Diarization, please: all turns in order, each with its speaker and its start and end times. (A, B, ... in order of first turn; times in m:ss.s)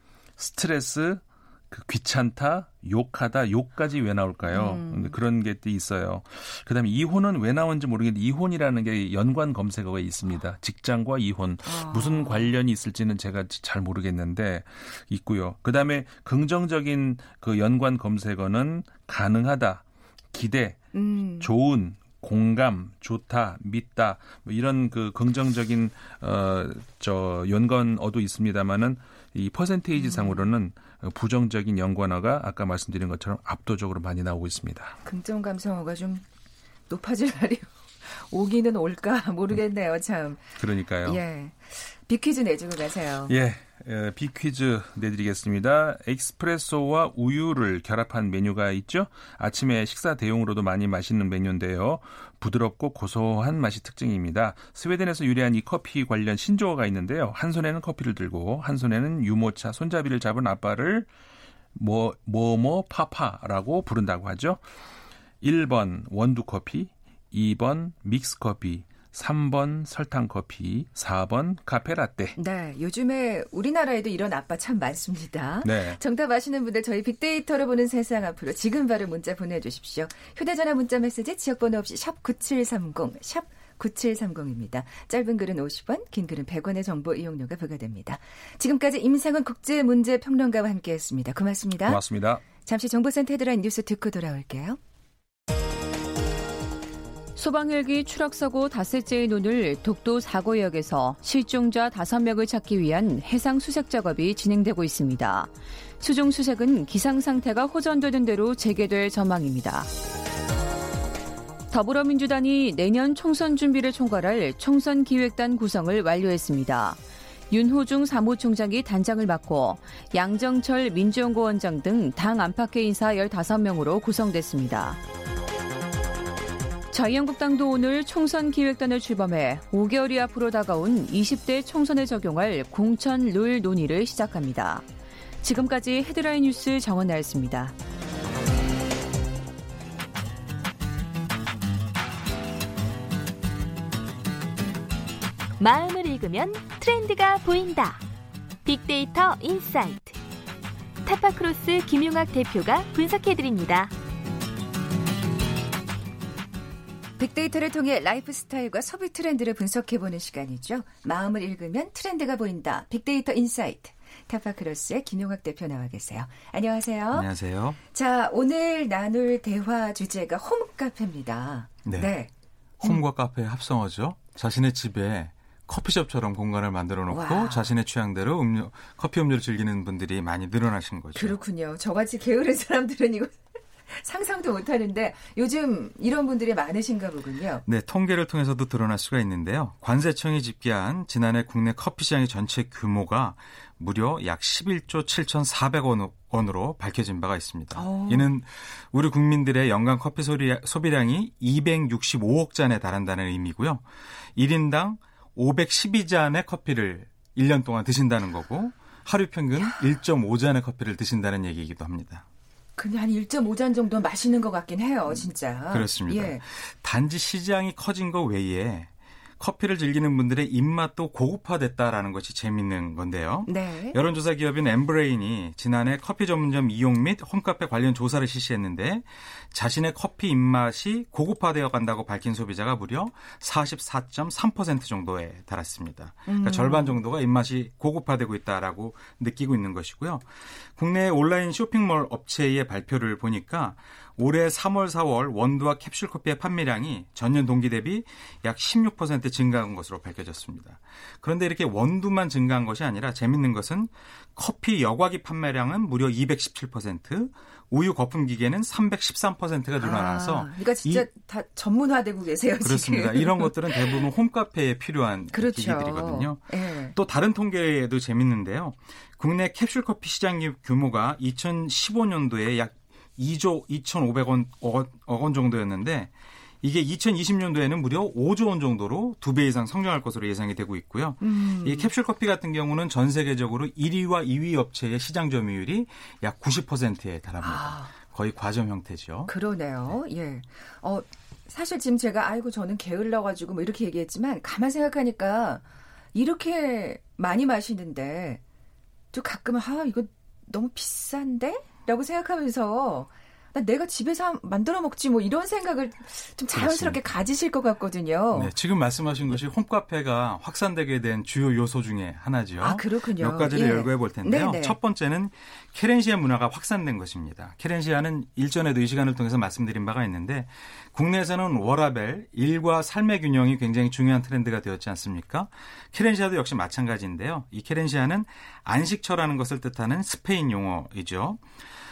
0:00.4-0:20.8 A
0:04.5-0:05.1 B
0:11.6-0:12.5 B
0:20.9-0:21.5 B
0:21.4-0:35.0 A
0:30.0-0:30.5 B
0:35.0-0:36.2 B
0:36.9-0:43.3 B
0:40.6-0:41.2 A
0:43.3-1:01.1 A
1:01.7-1:04.6 A
1:05.4-1:12.4 A
1:12.4-1:32.0 B
1:15.6-1:16.0 A
1:31.8-1:32.4 A
1:32.5-1:34.8 B
1:37.4-1:49.9 C
1:51.7-2:05.0 C
2:06.9-2:14.8 C
2:15.4-2:17.7 C
2:25.6-2:28.0 D
2:28.6-2:30.2 D
2:31.0-2:33.9 D
2:37.2-2:47.3 B
2:47.1-2:47.8 E
2:47.9-2:52.3 B
2:51.8-2:52.1 E
2:52.8-3:01.4 E
2:57.1-2:57.7 B
3:01.1-3:07.6 B
3:07.6-3:23.8 E
3:17.7-3:18.3 B
3:24.4-3:32.2 E
3:32.8-3:36.4 B
3:35.7-4:21.1 E
3:43.4-3:44.0 B
3:56.3-3:57.0 B
4:19.8-4:24.1 B
4:22.6-4:49.3 E
4:25.3-4:27.0 B
4:41.2-4:41.9 B
4:47.4-4:47.9 B
4:49.3-4:58.4 B
4:59.1-5:08.5 B
5:06.5-5:07.0 E
5:08.3-5:31.4 E
5:12.6-5:14.8 B